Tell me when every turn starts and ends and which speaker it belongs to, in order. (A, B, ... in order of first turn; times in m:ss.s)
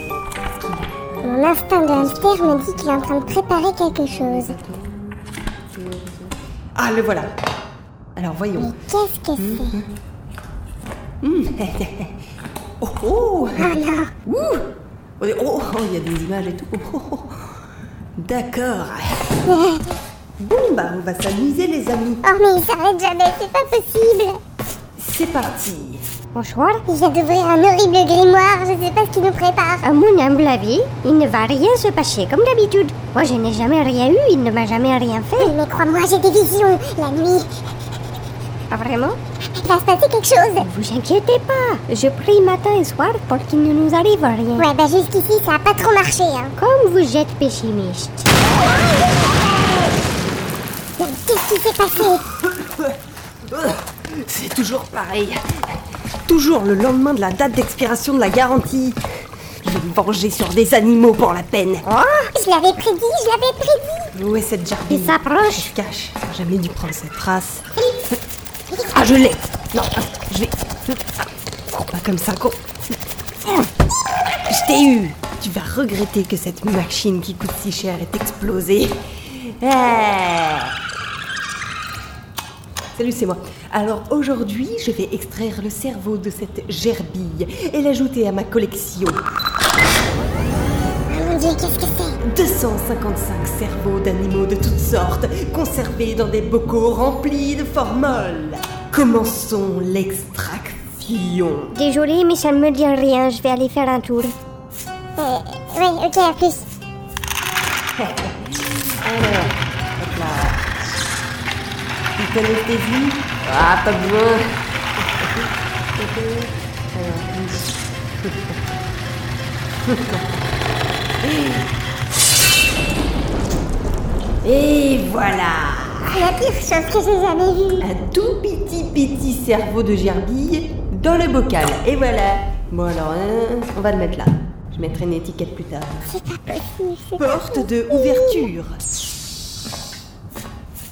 0:00.6-0:03.1 A
0:01.2-0:04.6 B
0:04.1-0:07.3 A
0:08.2-0:08.7 A
0:08.6-0:09.8 B
0:09.4-0:09.9 A
0:11.2-0:12.2 A
0:12.8-0:17.5 A
0:13.6-0:14.1 B
0:18.2-0:19.4 A
0:19.5-0:20.0 B
0:20.4-0:22.2 A
0:22.2-0:24.4 B
0:25.0-0:26.1 A
0:26.3-0:26.8 C
0:26.9-0:29.8 B
0:29.8-0:35.6 C
0:35.4-0:37.6 B
0:38.7-0:39.2 C
0:39.6-0:40.7 B
0:40.6-0:44.7 C
0:44.6-0:46.6 B
0:46.6-0:48.3 C
0:51.0-0:52.2 B
0:52.4-0:52.9 A
0:53.5-0:55.7 A
0:56.3-0:59.0 A
0:59.6-1:01.9 A
1:01.9-1:02.3 C
1:02.3-1:04.1 B
1:04.1-1:07.9 A
1:04.9-1:05.7 C
1:08.8-1:11.0 A
1:11.7-1:12.7 A
1:13.4-1:13.7 A
1:14.5-1:20.8 A
1:23.0-1:29.2 A
1:31.1-1:32.2 B
1:32.2-1:41.8 A
1:41.7-1:44.3 C
1:45.2-1:46.7 B
1:48.0-1:50.7 A
1:52.2-1:54.6 A
1:55.2-1:55.4 A
1:56.0-1:58.6 A
1:59.9-2:00.3 A
2:01.2-2:01.7 A
2:04.4-2:06.3 A
2:06.1-2:07.9 B
2:07.8-2:16.1 A
2:16.1-2:18.4 B
2:17.2-2:18.8 A